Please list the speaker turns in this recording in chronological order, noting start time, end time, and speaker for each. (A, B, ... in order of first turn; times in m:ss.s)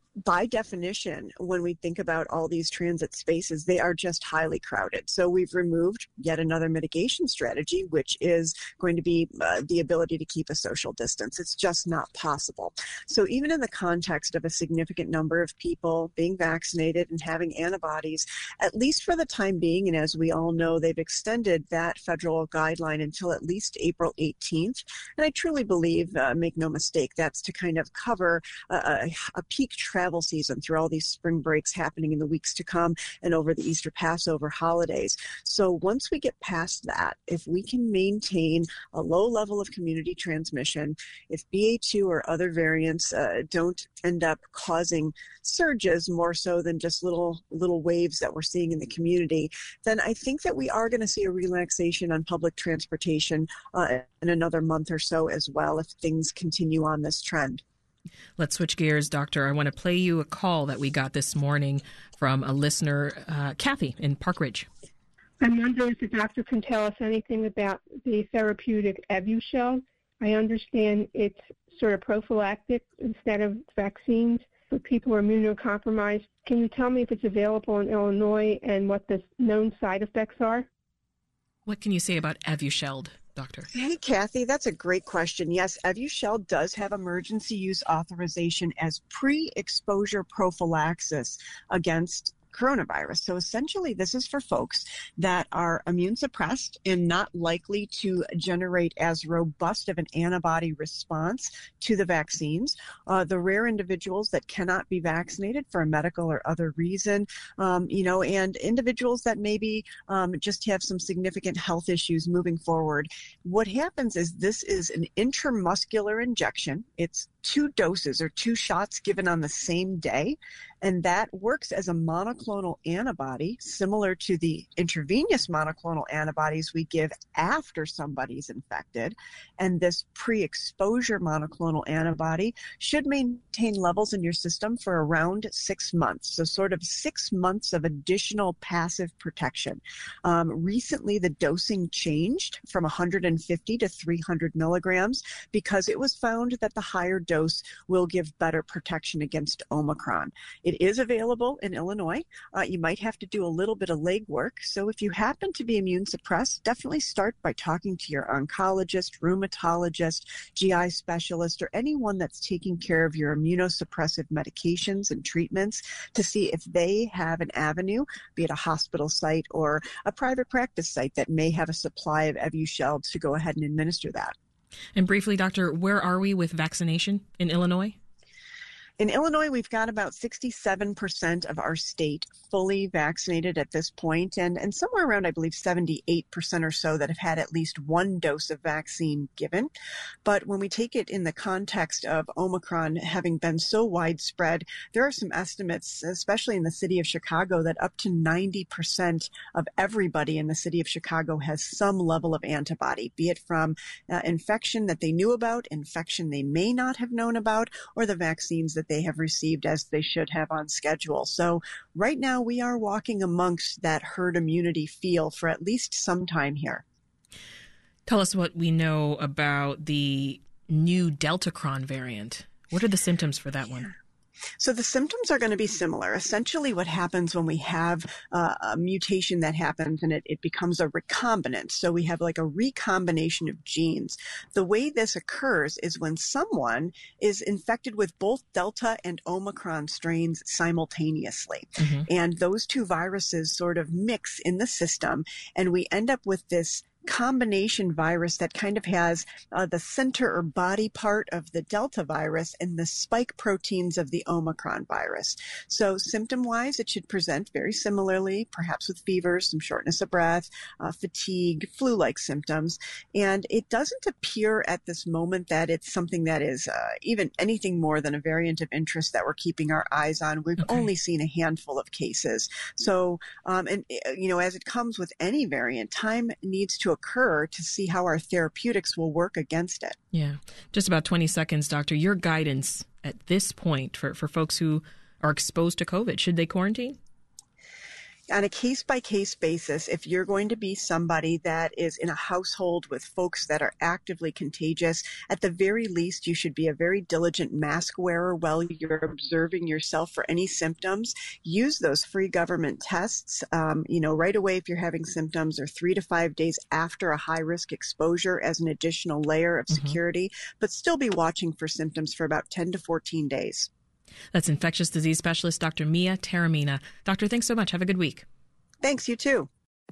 0:00.2-0:57.6 A
0:58.4-1:04.7 B
1:05.4-1:20.7 C
1:21.6-1:23.7 B
1:23.7-2:54.3 A
2:54.9-2:58.0 B
2:59.0-3:09.7 A
3:10.2-3:36.8 A
3:38.0-3:43.9 B
3:44.6-4:40.0 A
4:40.1-4:47.0 B
4:48.3-5:13.7 A
5:14.3-5:18.2 B
5:18.8-5:19.5 A